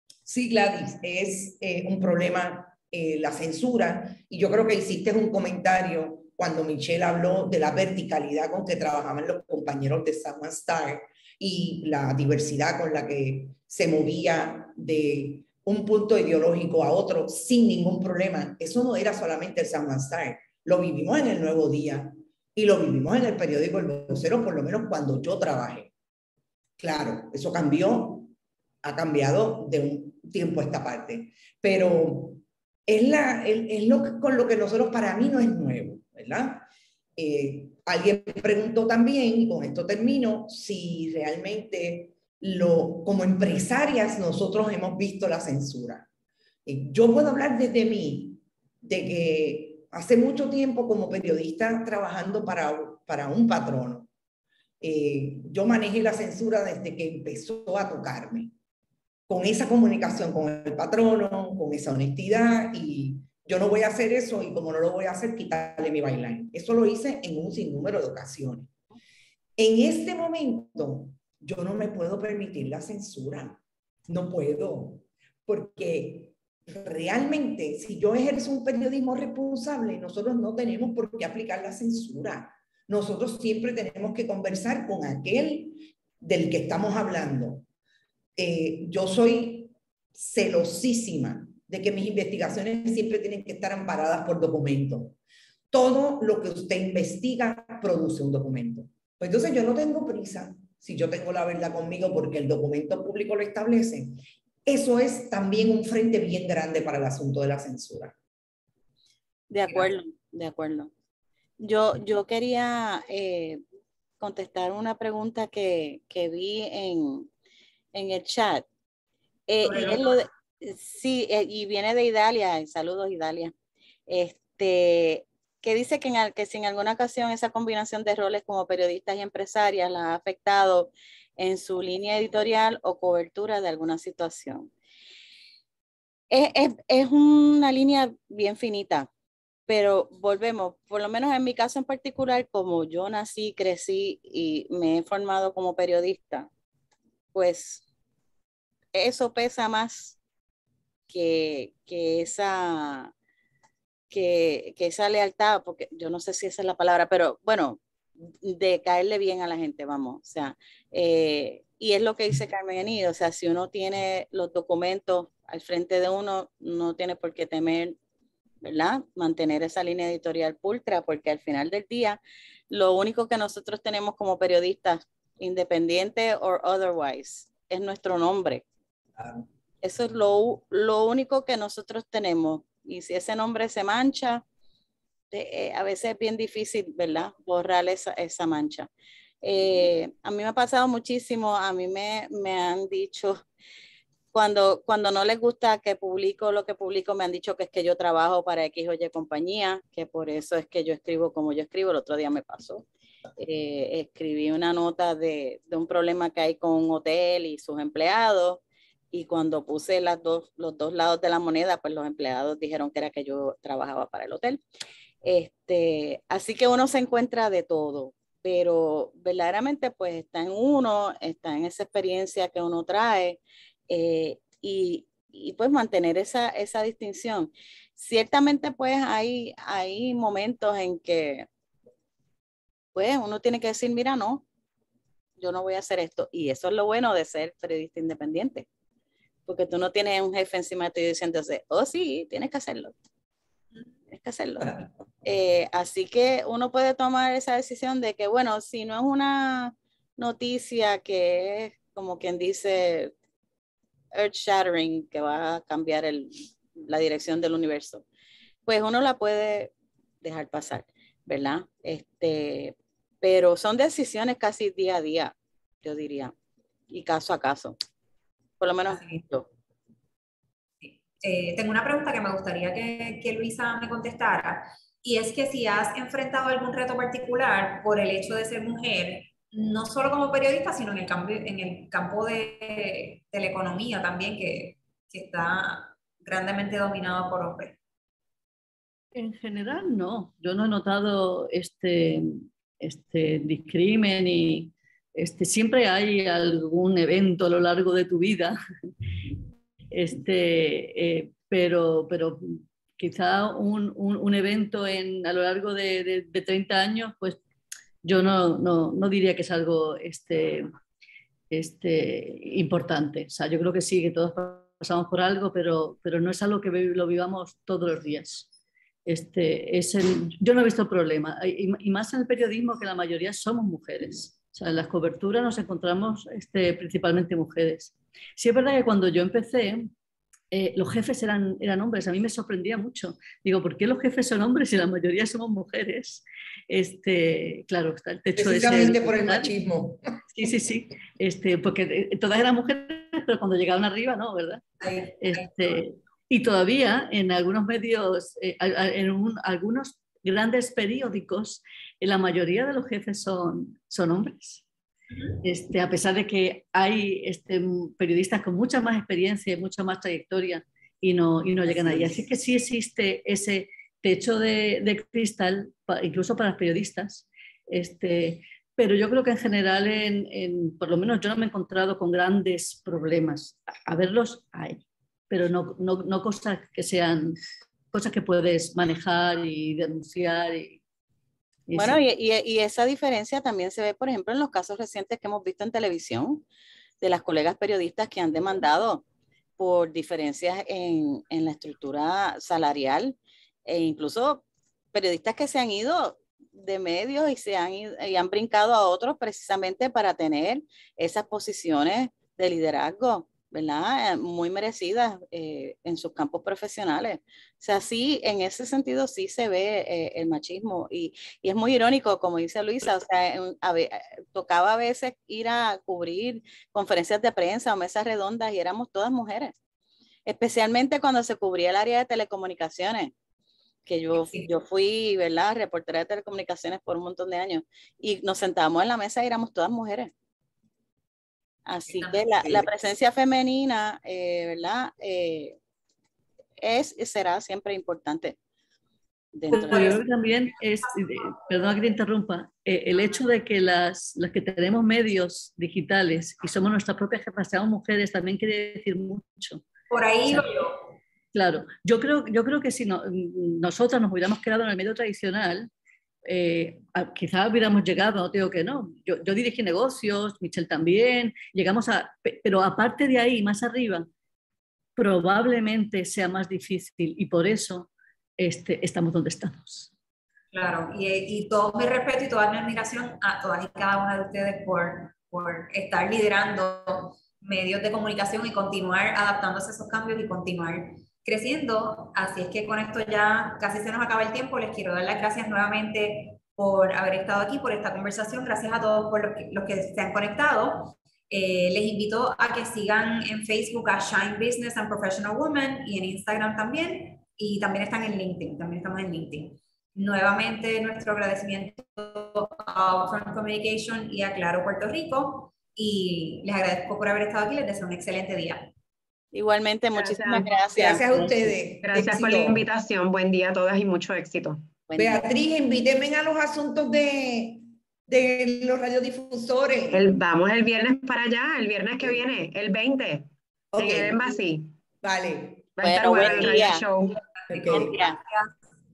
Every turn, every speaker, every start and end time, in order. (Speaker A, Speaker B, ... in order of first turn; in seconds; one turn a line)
Speaker A: 0.3-25.9
Speaker A: 26.8-28.3
Speaker A: 28.8-46.1
Speaker A: 46.7-54.1
Speaker A: 54.8-58.5
Speaker A: 59.3-68.7
Speaker A: 69.6-87.7
Speaker A: 88.4-95.2
Speaker A: 95.7-108.2
Speaker B: 109.5-110.9
Speaker B: 111.6-113.6
Speaker B: 114.2-117.3
Speaker B: 117.9-118.7
Speaker B: 119.5-123.5
Speaker C: 119.6-120.2
Speaker B: 124.1-134.7
Speaker B: 136.3-139.1
Speaker B: 139.7-146.5
Speaker B: 147.3-147.8
Speaker B: 148.9-150.2
Speaker B: 151.1-153.1
Speaker B: 154.1-157.8
Speaker B: 158.4-168.0
Speaker B: 168.6-178.7
Speaker A: 179.2-179.4
Speaker B: 179.8-184.4
Speaker B: 185.3-188.9
Speaker B: 189.4-193.4
Speaker B: 194.3-202.9
Speaker B: 203.4-214.6
Speaker B: 215.2-231.5
Speaker B: 232.9-234.4
Speaker B: 235.4-238.7
Speaker B: 239.5-242.9
Speaker B: 244.1-253.1
Speaker B: 254.1-258.1
Speaker B: 258.7-266.3
Speaker B: 266.9-267.8
Speaker B: 268.6-269.5
Speaker C: 268.9-269.2
Speaker C: 270.8-287.8
Speaker D: 289.1-298.6
Speaker D: 299.9-307.4
Speaker D: 308.0-310.7
Speaker D: 311.5-318.5
Speaker D: 319.1-329.9
Speaker D: 330.5-339.5
Speaker A: 338.4-340.2
Speaker D: 340.3-354.6
Speaker D: 355.4-377.4
Speaker A: 361.7-362.1
Speaker D: 377.9-380.8
Speaker D: 381.7-382.0
Speaker B: 381.7-386.4
Speaker B: 387.0-389.0
Speaker B: 389.6-419.5
Speaker B: 420.3-423.1
Speaker B: 423.9-430.1
Speaker C: 424.1-424.5
Speaker B: 431.7-435.6
Speaker C: 431.9-432.7
Speaker B: 436.6-438.4
Speaker B: 439.4-440.0
Speaker D: 439.5-449.6
Speaker C: 439.5-440.0
Speaker C: 440.9-441.4
Speaker C: 449.9-450.9
Speaker D: 451.3-455.7
Speaker D: 456.2-464.1
Speaker D: 465.0-469.9
Speaker C: 470.5-508.7
Speaker B: 509.3-511.3
Speaker E: 509.9-510.5
Speaker A: 510.8-512.6
Speaker E: 511.8-514.6
Speaker B: 514.9-515.2
Speaker A: 515.0-520.1
Speaker E: 519.9-524.7
Speaker A: 523.7-524.2
Speaker A: 525.0-525.7
Speaker E: 525.8-527.2
Speaker B: 525.8-526.9
Speaker C: 527.5-528.5
Speaker A: 527.5-527.9
Speaker B: 527.7-528.2